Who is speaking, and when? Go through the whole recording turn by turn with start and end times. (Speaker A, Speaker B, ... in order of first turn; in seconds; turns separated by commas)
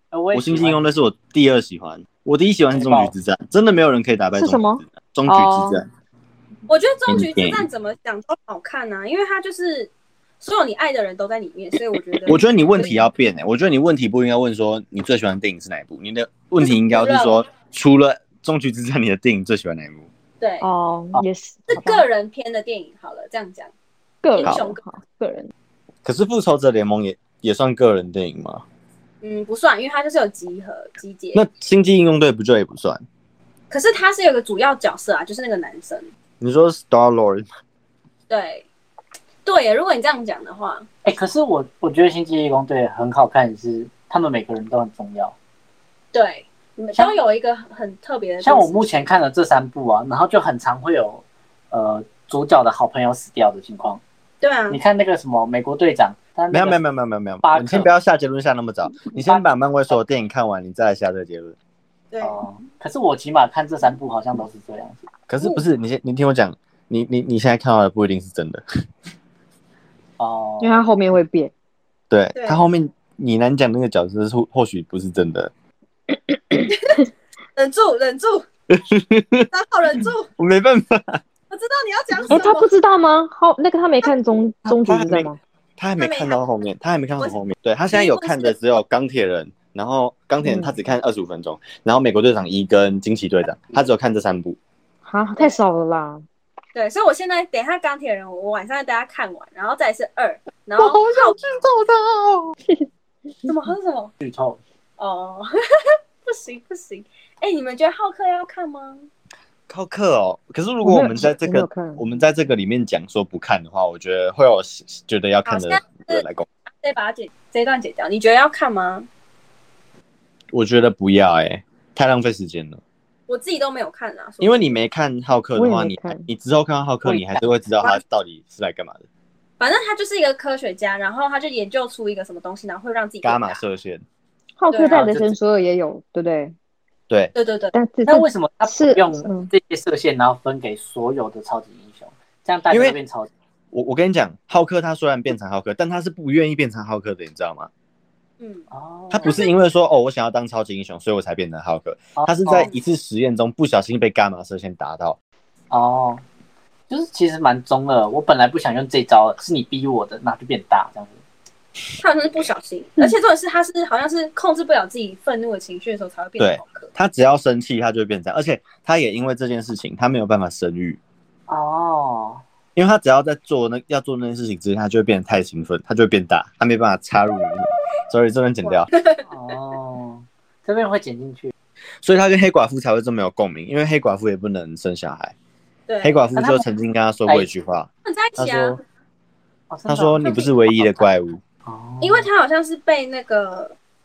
Speaker A: 0.1-0.8, Speaker B: 0.3-5.9, Speaker A: 2.7-3.1, Speaker C: 4.4-5.8, Speaker D: 6.7-9.9, Speaker B: 7.1-7.6, Speaker D: 10.4-13.0, Speaker B: 12.2-20.1, Speaker D: 16.6-17.4, Speaker D: 20.4-20.6, Speaker C: 20.6-22.0, Speaker D: 21.7-23.7, Speaker C: 24.2-25.5, Speaker D: 24.4-24.8, Speaker B: 26.0-28.6, Speaker D: 29.2-31.4, Speaker B: 31.3-33.0, Speaker D: 33.7-36.1, Speaker B: 36.4-37.5, Speaker D: 38.3-38.6, Speaker D: 39.5-40.9, Speaker A: 41.0-45.4, Speaker D: 46.1-49.1, Speaker A: 48.4-54.0, Speaker D: 54.4-54.8, Speaker A: 54.7-56.8, Speaker B: 56.5-61.5, Speaker A: 57.4-57.9, Speaker A: 59.1-59.5, Speaker D: 62.1-62.4, Speaker A: 62.2-65.0, Speaker B: 65.3-68.6, Speaker A: 70.2-70.8, Speaker C: 70.6-71.5, Speaker B: 72.1-75.5, Speaker D: 72.3-72.6, Speaker C: 76.1-76.7, Speaker D: 76.7-77.0, Speaker D: 77.5-78.5, Speaker B: 78.7-79.5, Speaker D: 79.5-80.3, Speaker B: 80.4-81.2, Speaker D: 81.5-82.7, Speaker C: 82.3-85.4, Speaker B: 84.7-94.6, Speaker D: 86.0-86.4, Speaker D: 87.9-88.6, Speaker C: 90.4-90.8, Speaker C: 95.0-96.2, Speaker D: 96.7-101.4, Speaker B: 100.8-102.5, Speaker D: 103.5-104.1, Speaker A: 104.2-104.6, Speaker D: 105.0-109.1, Speaker B: 109.7-116.5, Speaker C: 110.8-112.0, Speaker D: 115.5-116.2, Speaker D: 116.8-119.1, Speaker B: 120.5-122.8, Speaker D: 123.3-124.8, Speaker B: 124.4-129.1, Speaker C: 125.5-126.3, Speaker A: 127.0-127.4, Speaker D: 129.6-133.6, Speaker B: 133.2-134.0, Speaker C: 134.6-136.6, Speaker D: 134.7-135.0, Speaker A: 134.9-135.3, Speaker D: 137.3-137.7, Speaker C: 137.7-139.5, Speaker A: 138.1-143.3, Speaker B: 142.7-143.0, Speaker B: 143.7-147.7, Speaker D: 148.4-148.7, Speaker A: 148.7-149.4, Speaker B: 149.1-155.2, Speaker D: 149.2-149.5, Speaker A: 152.2-152.7, Speaker A: 155.7-156.2, Speaker A: 156.9-161.2, Speaker D: 162.0-166.9, Speaker B: 166.4-171.0, Speaker A: 171.5-172.4, Speaker B: 172.8-178.9, Speaker D: 178.7-179.2, Speaker A: 179.3-181.5, Speaker B: 182.0-185.3, Speaker D: 185.9-186.3, Speaker B: 186.0-188.8, Speaker A: 186.3-186.6, Speaker D: 188.1-188.8, Speaker A: 189.7-191.1, Speaker B: 189.9-191.4, Speaker D: 190.2-190.5, Speaker A: 191.7-192.3, Speaker D: 192.0-193.7